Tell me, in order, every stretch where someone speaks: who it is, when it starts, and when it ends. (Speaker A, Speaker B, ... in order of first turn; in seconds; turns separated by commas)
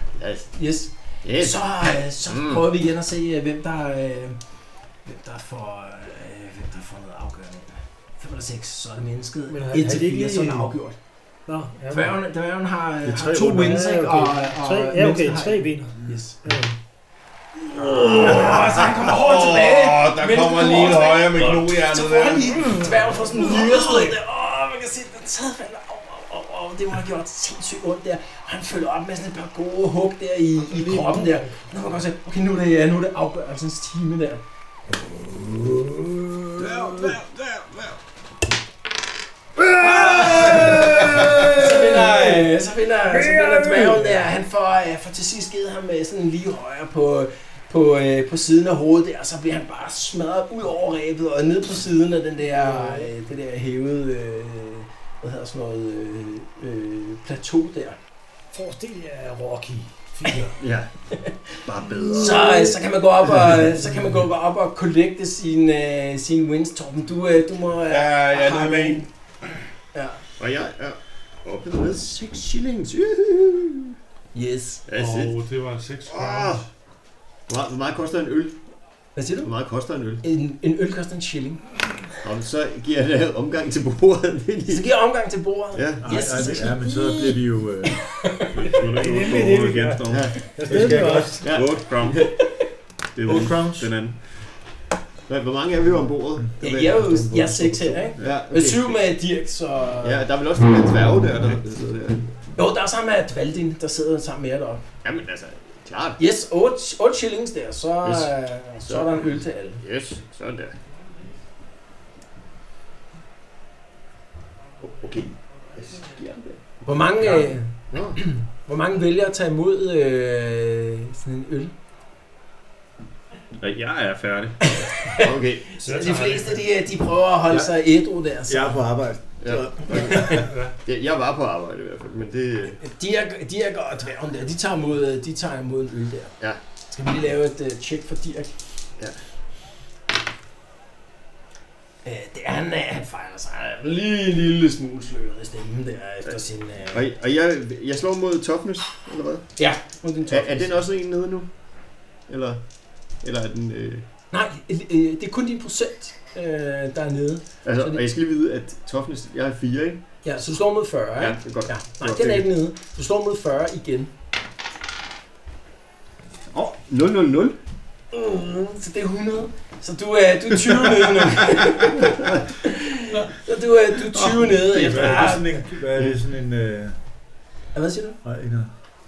Speaker A: 0.2-0.5, Speaker B: 0.5-4.4, Speaker A: 1.2-2.7, Speaker B: 5.0-11.0, Speaker C: 9.5-10.7, Speaker C: 11.5-12.2, Speaker B: 11.9-16.5, Speaker D: 13.1-13.8, Speaker C: 13.4-16.7, Speaker B: 17.6-34.4, Speaker E: 18.1-22.8, Speaker C: 30.6-31.7, Speaker C: 35.8-36.1, Speaker E: 36.6-38.0, Speaker B: 39.8-58.0, Speaker E: 39.8-41.7, Speaker C: 43.1-44.2, Speaker C: 52.5-53.1, Speaker C: 58.5-60.6, Speaker A: 60.6-60.9, Speaker A: 61.6-62.8, Speaker B: 62.1-69.1, Speaker E: 67.9-69.0, Speaker B: 69.9-70.2, Speaker A: 70.4-74.0, Speaker B: 74.3-74.8, Speaker A: 74.9-75.4, Speaker F: 74.9-76.7, Speaker A: 76.1-76.6, Speaker A: 77.5-78.6, Speaker B: 79.2-79.5, Speaker A: 79.4-80.2, Speaker B: 80.2-81.8, Speaker A: 82.2-84.9, Speaker B: 84.7-88.7, Speaker A: 85.7-86.5, Speaker D: 86.0-88.1, Speaker E: 88.5-92.3, Speaker C: 88.8-91.5, Speaker A: 90.1-90.4, Speaker D: 90.7-91.4, Speaker A: 91.4-92.3, Speaker B: 92.2-92.6, Speaker E: 93.2-94.2, Speaker D: 93.2-93.9, Speaker A: 95.3-97.0, Speaker D: 96.5-98.0, Speaker B: 96.6-100.3, Speaker A: 98.2-99.0, Speaker A: 100.0-102.3, Speaker B: 102.5-104.8, Speaker A: 105.0-106.2, Speaker B: 106.2-109.8, Speaker A: 108.0-108.3, Speaker A: 108.8-110.8, Speaker A: 114.8-118.2, Speaker B: 116.8-121.7, Speaker E: 123.6-125.0, Speaker B: 124.6-128.8, Speaker A: 125.1-125.8, Speaker F: 125.8-126.7, Speaker D: 128.5-130.3, Speaker A: 129.4-132.8, Speaker B: 129.9-130.4, Speaker F: 130.3-130.8, Speaker B: 132.8-136.3, Speaker B: 136.9-138.5, Speaker B: 142.0-147.1, Speaker A: 146.9-149.5, Speaker B: 149.6-150.8, Speaker A: 150.3-151.5, Speaker A: 152.3-152.6, Speaker A: 153.2-154.1, Speaker B: 154.3-158.0, Speaker A: 157.6-160.0, Speaker B: 160.2-164.1, Speaker A: 161.2-162.5, Speaker A: 166.5-167.6, Speaker B: 168.1-175.6, Speaker D: 174.7-177.0, Speaker A: 175.0-175.4, Speaker A: 175.9-176.2, Speaker B: 177.8-178.2, Speaker D: 178.2-178.7